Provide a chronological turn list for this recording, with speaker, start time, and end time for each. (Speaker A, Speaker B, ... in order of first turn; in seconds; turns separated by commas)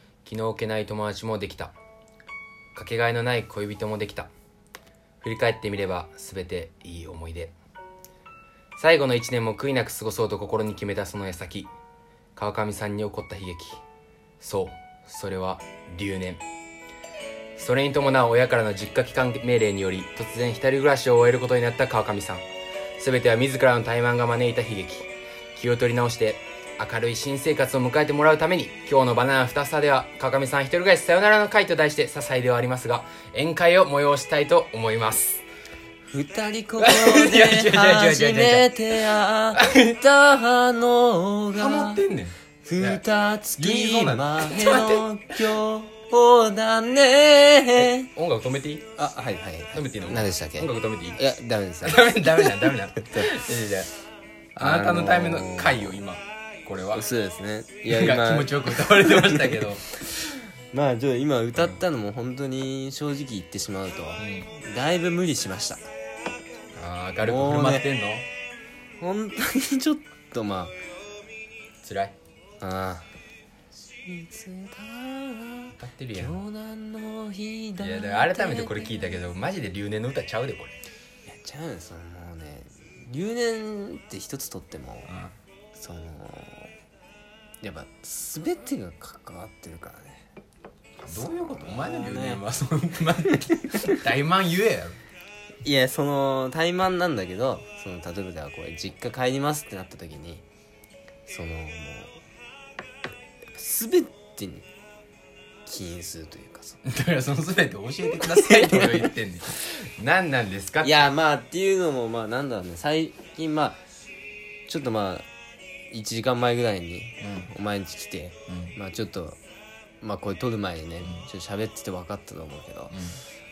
Speaker A: 0.2-1.7, Speaker A: 2.8-4.3, Speaker A: 5.2-7.5, Speaker A: 8.8-11.7, Speaker A: 12.4-13.8, Speaker A: 14.4-16.4, Speaker A: 17.6-22.4, Speaker A: 23.0-35.4, Speaker B: 36.1-42.0, Speaker A: 36.8-40.0, Speaker A: 41.5-43.0, Speaker B: 42.6-48.1, Speaker A: 43.5-45.5, Speaker A: 47.8-48.9, Speaker B: 49.0-53.4, Speaker A: 49.7-51.2, Speaker A: 51.8-53.9, Speaker B: 54.5-55.8, Speaker A: 54.6-57.0, Speaker B: 56.9-59.9, Speaker A: 57.8-60.4, Speaker B: 60.7-65.8, Speaker A: 64.2-64.5, Speaker A: 66.8-68.3, Speaker B: 67.2-67.9, Speaker B: 69.0-70.7, Speaker A: 71.8-72.2, Speaker B: 72.6-73.1, Speaker B: 74.0-79.2, Speaker A: 75.8-76.4, Speaker A: 77.8-80.8, Speaker B: 81.2-85.1, Speaker A: 85.1-85.3, Speaker B: 85.8-86.7, Speaker B: 87.6-90.2, Speaker A: 91.0-95.0, Speaker B: 91.0-92.4, Speaker B: 93.5-94.0, Speaker B: 95.6-100.4, Speaker B: 101.3-102.2, Speaker B: 103.6-104.7, Speaker B: 105.7-106.8, Speaker A: 106.8-111.0, Speaker B: 108.2-109.1, Speaker B: 110.8-113.8, Speaker B: 114.7-115.3, Speaker B: 115.9-119.4, Speaker A: 117.2-117.5, Speaker A: 118.5-118.7, Speaker B: 120.0-123.0, Speaker A: 122.9-123.2